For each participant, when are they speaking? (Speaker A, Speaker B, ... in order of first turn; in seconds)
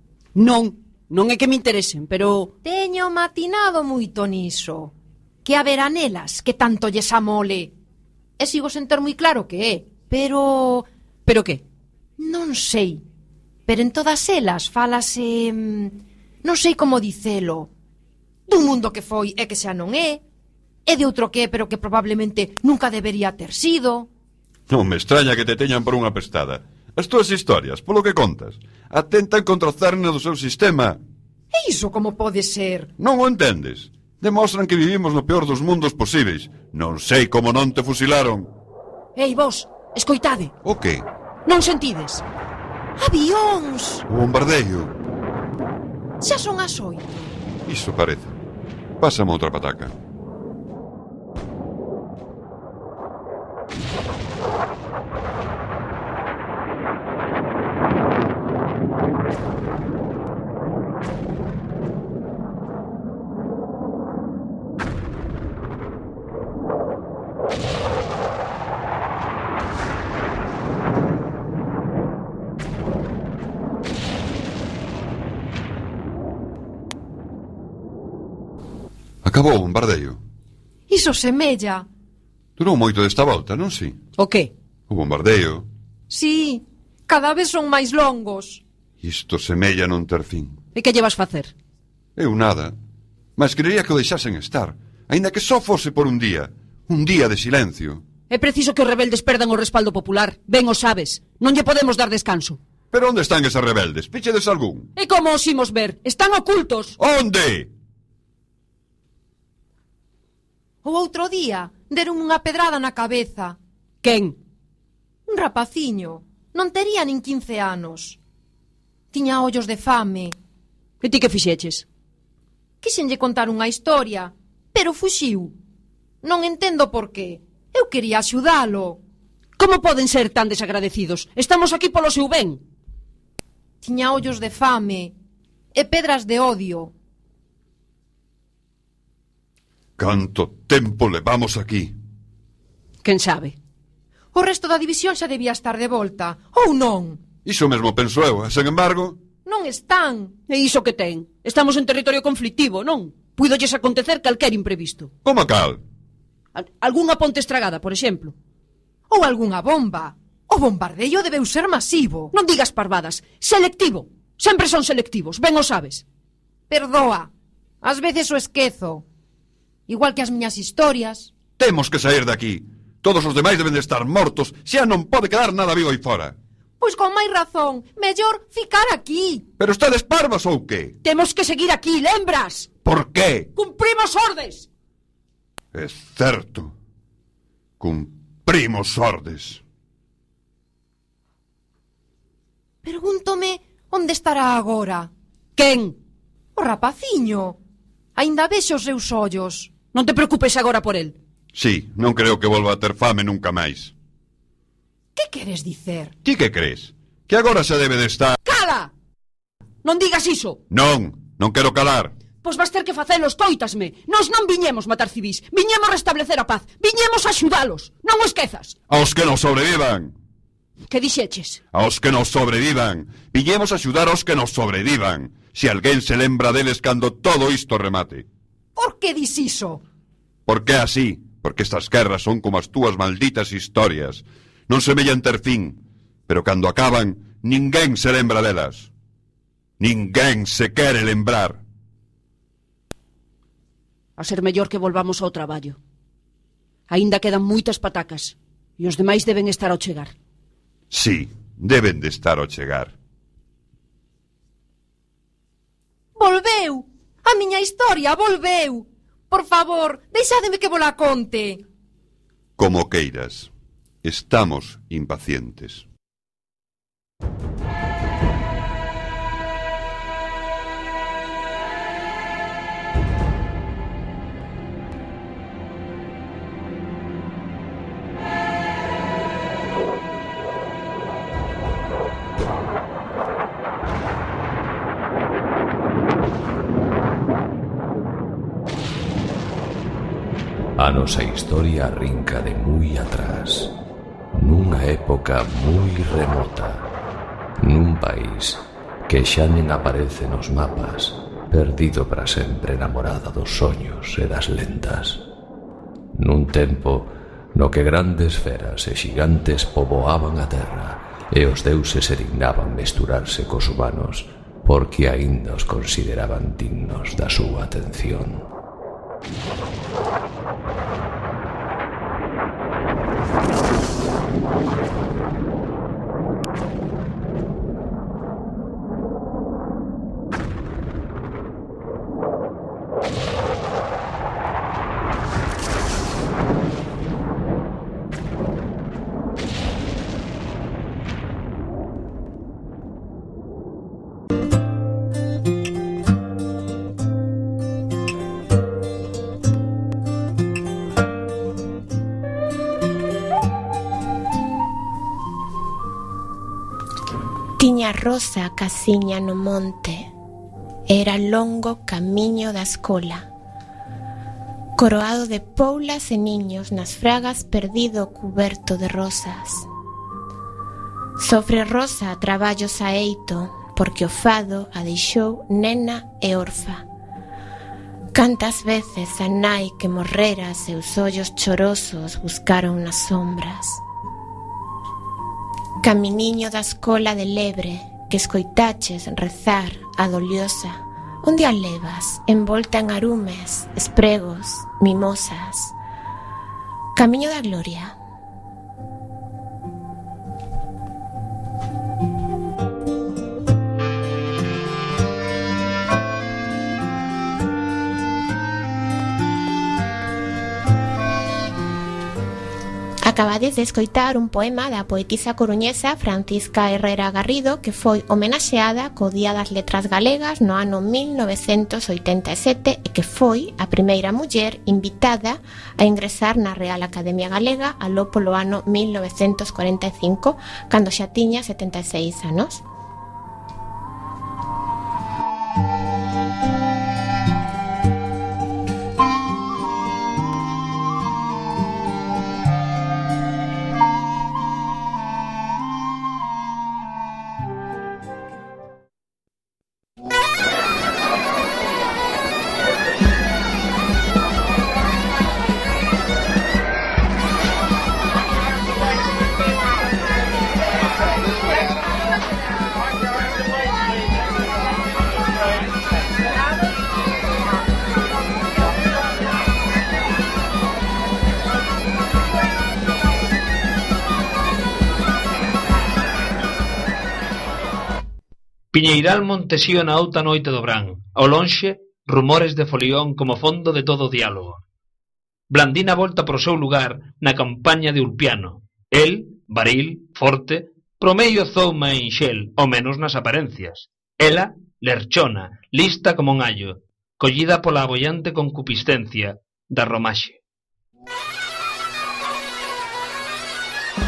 Speaker A: 0.3-2.5, 11.2-11.6, 39.1-40.5, 41.5-42.2, 84.2-84.5, 90.7-91.5, 98.3-102.6, 105.0-107.0, 114.0-114.3, 121.0-121.8, 129.6-132.6, 143.0-143.6, 150.5-155.1, 156.5-158.3, 162.3-166.0, 181.0-182.7, 183.5-184.7, 195.6-195.9, 199.9-201.2, 208.4-208.9, 209.8-210.6, 212.4-218.8, 220.9-221.6, 244.2-245.8, 246.9-250.1
Speaker B: 2.6-4.9, 5.4-7.7, 8.4-10.9, 12.2-13.0, 13.7-17.7, 18.5-20.2, 20.9-24.1, 31.5-32.9, 43.0-44.0, 46.2-47.3, 80.9-81.9, 86.1-88.6, 110.8-113.6, 115.3-118.2, 119.1-120.3, 122.8-125.5, 126.2-129.0, 133.8-135.1, 135.7-136.9, 144.3-147.2, 149.4-150.4, 159.1-162.3, 166.7-167.3, 167.8-169.0, 169.9-171.3, 176.8-179.4, 192.8-195.1, 196.6-197.6, 198.1-199.7, 205.2-206.1, 228.8-229.8, 256.1-261.6
Speaker C: 24.7-31.0, 33.0-38.5, 40.6-41.0, 44.1-44.9, 47.6-48.4, 49.0-49.9, 79.2-80.2, 82.6-84.0, 84.9-85.7, 89.0-90.6, 92.2-92.7, 93.4-98.0, 102.9-104.9, 107.0-107.7, 140.0-141.9, 147.4-149.2, 155.2-155.8, 171.6-176.3, 179.6-180.9, 182.8-183.5, 185.7-186.7, 187.8-189.6, 201.5-203.9, 206.2-208.4, 210.7-212.1, 218.9-220.1, 221.7-228.2, 230.5-238.9, 239.8-241.6, 250.9-252.9, 262.6-263.5, 264.0-265.8
Speaker D: 290.8-293.7, 294.4-296.9, 297.6-305.2, 306.1-318.4
Speaker E: 357.6-360.1, 360.9-363.3, 364.8-369.6, 371.2-376.8, 378.1-383.8, 385.8-395.7, 396.9-397.9, 413.1-432.6
Speaker F: 478.7-484.6, 485.5-500.4